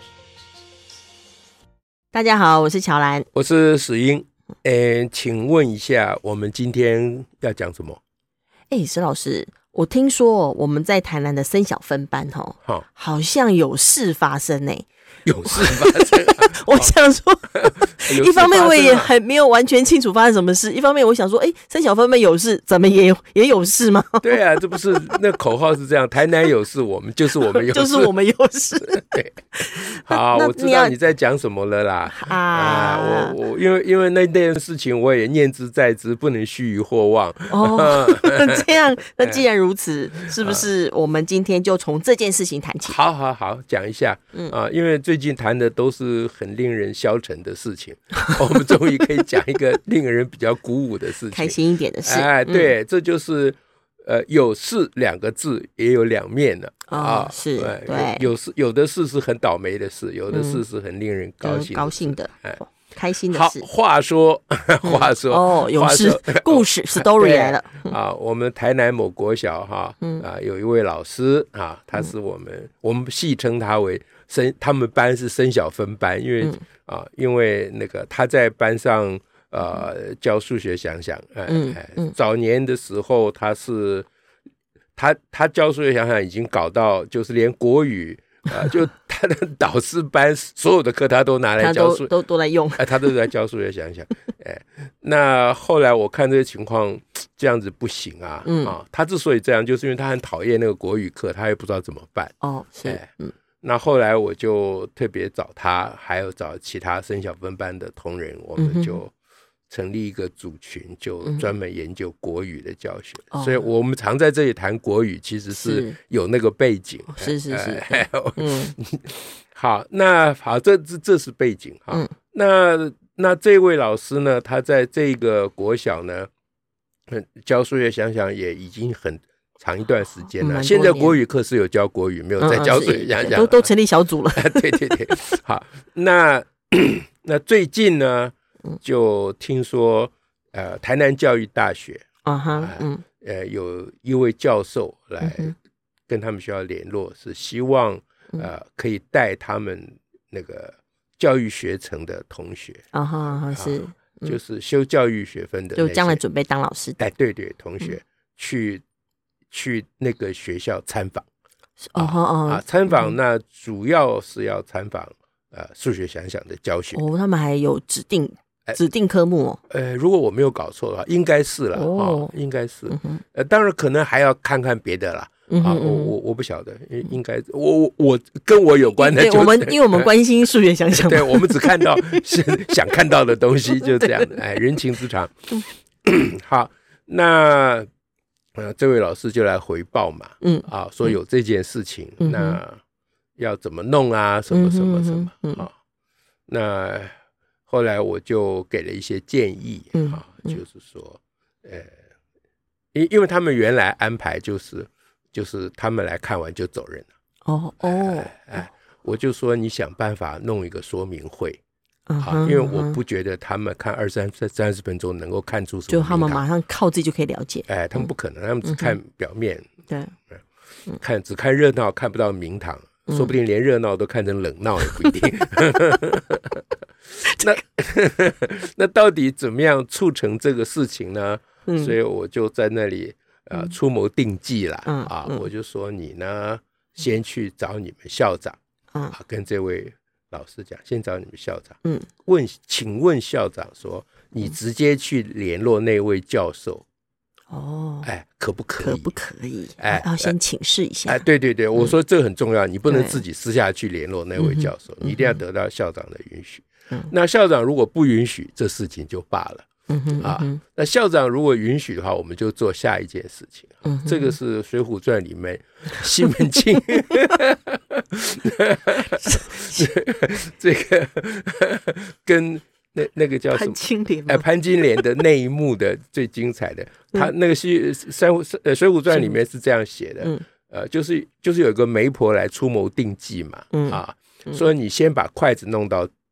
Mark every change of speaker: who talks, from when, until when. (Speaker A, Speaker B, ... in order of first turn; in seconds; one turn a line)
Speaker A: 2.1-3.3
Speaker B: 3.3-8.0
Speaker A: 8.7-14.9
Speaker B: 15.2-16.9
Speaker A: 15.5-24.4
Speaker B: 17.5-19.1
Speaker B: 24.2-28.1
Speaker A: 27.6-30.9
Speaker B: 28.8-39.4
Speaker A: 32.1-33.4
Speaker A: 37.5-43.0
Speaker B: 40.2-40.7
Speaker B: 42.9-62.6
Speaker A: 51.3-52.7
Speaker A: 56.9-58.3
Speaker A: 60.3-60.6
Speaker A: 61.4-63.7
Speaker B: 63.3-84.1
Speaker A: 64.8-67.9
Speaker A: 70.0-70.3
Speaker A: 81.5-82.1
Speaker B: 85.0-92.1
Speaker A: 91.6-93.1
Speaker B: 92.8-103.1
Speaker A: 98.5-98.8
Speaker A: 102.4-103.3
Speaker B: 103.6-109.1
Speaker A: 108.6-109.0
Speaker B: 109.7-126.3
Speaker A: 113.3-113.7
Speaker A: 115.5-116.0
Speaker A: 117.1-118.8
Speaker B: 127.1-133.7
Speaker A: 130.4-131.2
Speaker A: 132.4-135.3
Speaker B: 134.3-145.5
Speaker A: 142.2-143.0
Speaker A: 145.2-145.5
Speaker B: 146.1-152.8
Speaker A: 152.9-154.4
Speaker B: 153.5-156.2
Speaker A: 155.8-157.0
Speaker B: 157.0-158.8
Speaker B: 159.5-161.3
Speaker A: 161.8-163.2
Speaker B: 161.9-167.0
Speaker A: 166.9-169.6
Speaker B: 169.7-180.1
Speaker A: 171.8-172.3
Speaker A: 172.9-173.2
Speaker A: 175.5-176.1
Speaker A: 179.0-182.6
Speaker B: 181.0-185.5
Speaker A: 183.7-184.7
Speaker B: 186.0-187.9
Speaker B: 188.6-192.8
Speaker A: 190.4-191.1
Speaker A: 192.2-192.6
Speaker B: 193.4-195.7
Speaker A: 194.5-195.7
Speaker B: 196.5-197.1
Speaker B: 197.7-201.9
Speaker A: 199.9-200.6
Speaker B: 202.9-207.1
Speaker A: 207.5-208.5
Speaker B: 207.8-211.6
Speaker A: 212.1-213.0
Speaker B: 212.2-216.4
Speaker A: 215.9-218.1
Speaker B: 217.7-219.7
Speaker A: 218.7-219.0
Speaker A: 219.9-220.1
Speaker B: 221.0-226.6
Speaker A: 227.2-227.5
Speaker B: 227.4-238.6
Speaker A: 231.7-231.9
Speaker A: 234.9-235.5
Speaker B: 239.1-246.8
Speaker A: 241.8-242.1
Speaker A: 247.5-248.1
Speaker B: 248.0-249.1
Speaker A: 248.8-251.2
Speaker B: 249.8-250.3
Speaker B: 251.1-259.7
Speaker A: 252.9-253.2
Speaker A: 254.4-255.4
Speaker A: 259.9-260.6
Speaker B: 260.2-286.1
Speaker A: 263.9-264.4
Speaker A: 269.2-269.7
Speaker A: 273.5-274.4
Speaker A: 283.7-284.6